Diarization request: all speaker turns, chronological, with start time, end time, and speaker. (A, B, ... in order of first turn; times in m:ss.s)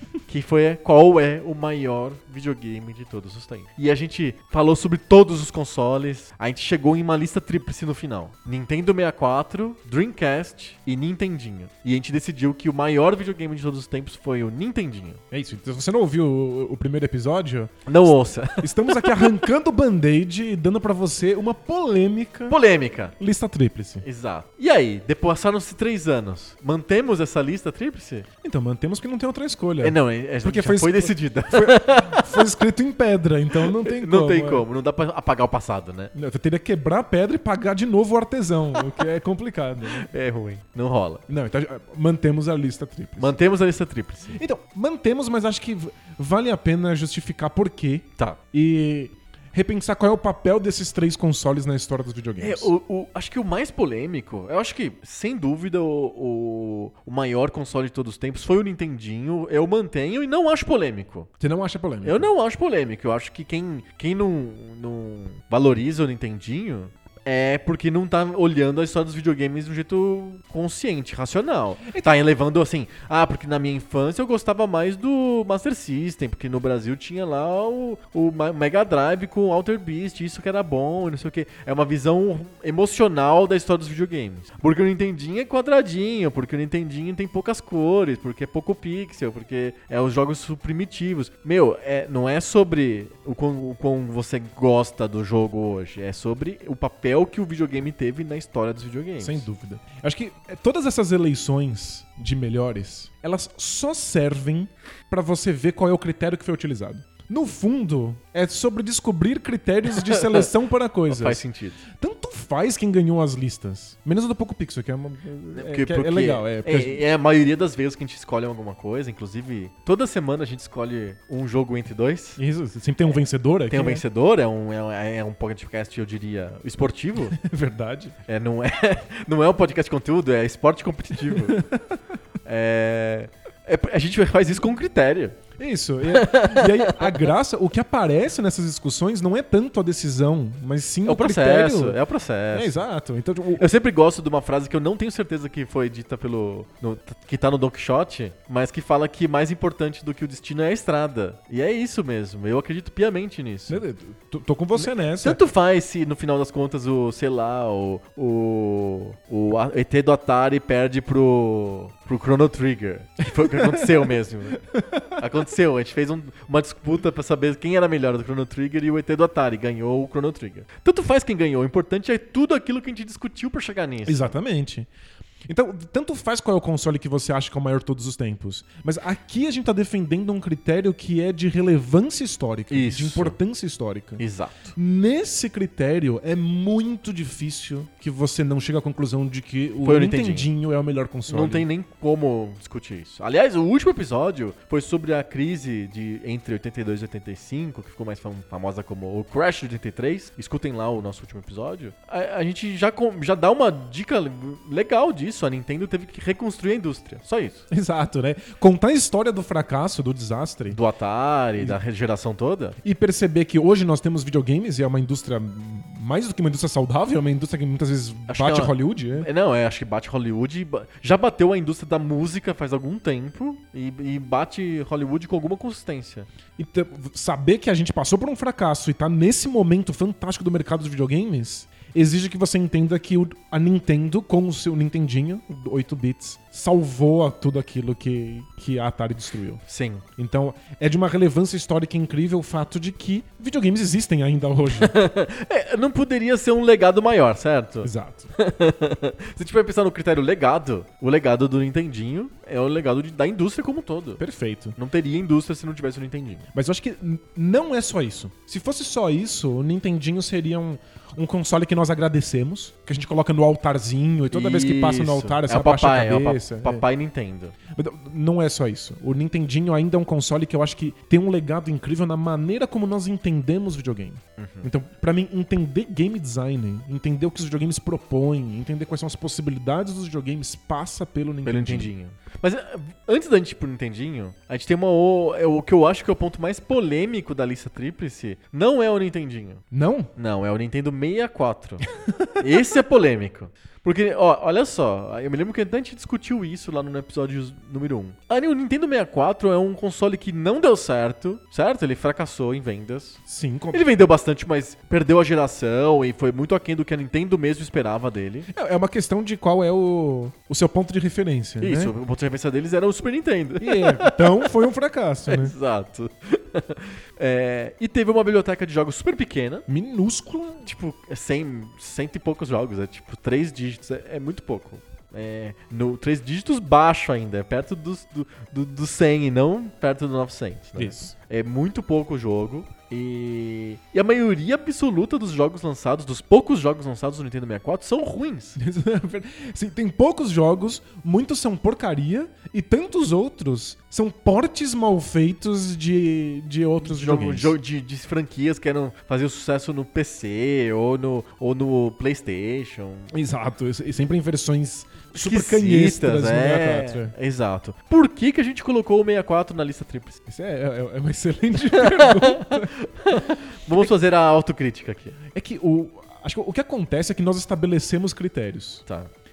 0:00.2-0:15.2 A
0:15.3-0:22.6 B
0:17.8-0:19.3 A
0:22.5-0:23.1 A
0:23.2-0:24.0 B
0:24.0-0:28.3 A
0:28.4-0:34.6 B
0:29.8-0:32.5 A
0:33.6-0:36.1 A
0:36.1-0:40.1 B
0:39.9-0:41.2 A
0:41.3-0:43.4 B
0:43.2-0:44.4 A
0:44.3-0:52.7 B
0:52.4-1:01.3 A
1:01.4-1:02.3 B
1:02.0-1:39.5 A
1:11.8-1:12.2 B
1:39.2-1:57.0 B
1:50.0-1:50.5 A
1:51.1-1:51.8 A
1:55.5-2:02.4 A
2:02.4-2:04.0 B
2:03.7-2:07.4 A
2:07.3-2:08.1 B
2:08.3-2:11.6 A
2:11.3-2:12.0 B
2:12.4-2:15.4 A
2:15.6-2:22.0 B
2:16.1-2:17.3 A
2:21.0-2:22.8 A
2:22.5-2:23.7 B
2:23.6-2:33.8 A
2:33.7-2:35.4 B
2:34.7-2:44.6 A
2:43.4-2:45.2 B
2:45.2-2:54.3 A
2:54.0-2:54.9 B
2:55.5-3:04.2 B
3:02.7-3:03.4 A
3:04.2-3:04.7 A
3:04.7-3:11.7 B
3:09.8-3:10.5 A
3:11.3-3:27.6 A
3:27.7-3:30.8 B
3:30.7-3:32.8 A
3:32.8-3:39.3 B
3:38.3-3:46.3 A
3:46.6-3:59.6 B
3:59.7-4:00.0 A
4:00.2-4:04.9 B
4:04.7-4:14.2 A
4:07.8-4:08.3 B
4:14.2-4:14.8 B
4:14.8-4:16.4 A
4:16.5-4:26.8 B
4:24.3-4:27.5 A
4:27.7-4:41.9 B
4:34.4-4:34.7 A
4:41.4-4:49.6 A
4:49.7-4:50.1 B
4:50.2-4:51.8 A
4:52.0-4:52.4 B
4:52.4-5:03.2 A
5:03.3-5:03.8 B
5:03.7-5:08.5 A
5:08.5-5:11.9 B
5:11.6-5:14.6 A
5:13.6-5:15.5 B
5:15.3-5:19.6 A
5:19.7-5:20.7 B
5:20.6-5:38.6 A
5:30.8-5:31.1 B
5:38.6-5:47.5 B
5:46.8-5:53.1 A
5:53.1-5:57.1 B
5:55.1-6:00.2 A
6:00.3-6:03.1 B
6:01.7-6:05.2 A
6:05.3-6:08.8 B
6:08.8-6:09.1 A